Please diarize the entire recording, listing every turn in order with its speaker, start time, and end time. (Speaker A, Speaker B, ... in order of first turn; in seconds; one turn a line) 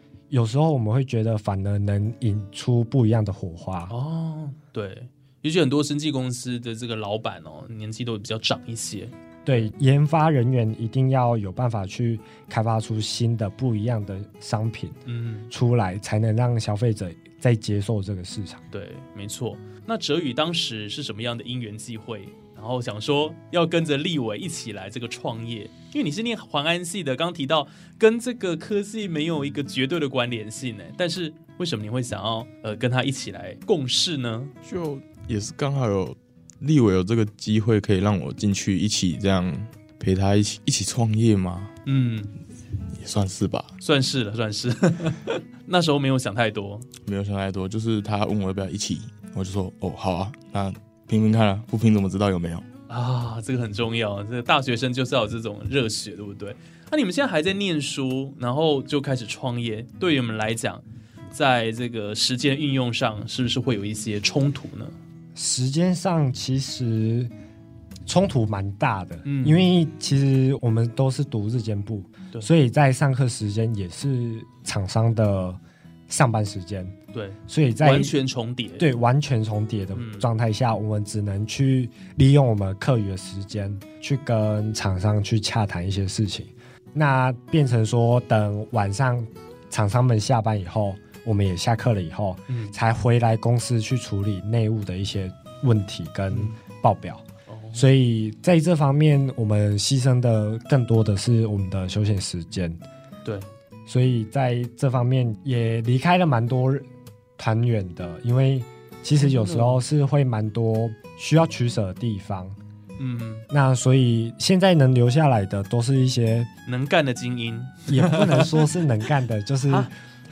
Speaker A: 0.3-3.9
Speaker B: 3.9-9.7
Speaker A: 9.4-15.0
Speaker B: 15.1-15.5
Speaker A: 15.5-18.6
Speaker B: 18.7-34.5
Speaker C: 34.6-41.7
Speaker B: 41.9-42.4
Speaker C: 42.9-43.8
Speaker B: 43.8-46.9
Speaker C: 47.0-52.7
Speaker B: 52.9-65.0
Speaker A: 65.3-67.3
Speaker A: 68.1-77.0
Speaker B: 69.2-69.7
Speaker B: 77.1-78.9
Speaker A: 77.5-78.1
Speaker A: 78.8-97.2
Speaker B: 80.0-80.3
Speaker B: 92.5-92.7
Speaker B: 96.3-96.6
Speaker B: 97.5-97.9
Speaker A: 97.8-102.8
Speaker B: 103.2-103.5
Speaker A: 103.9-106.9
Speaker A: 107.4-112.6
Speaker B: 109.2-109.8
Speaker B: 113.0-113.5
Speaker A: 113.5-116.5
Speaker B: 116.7-118.7
Speaker A: 117.9-119.9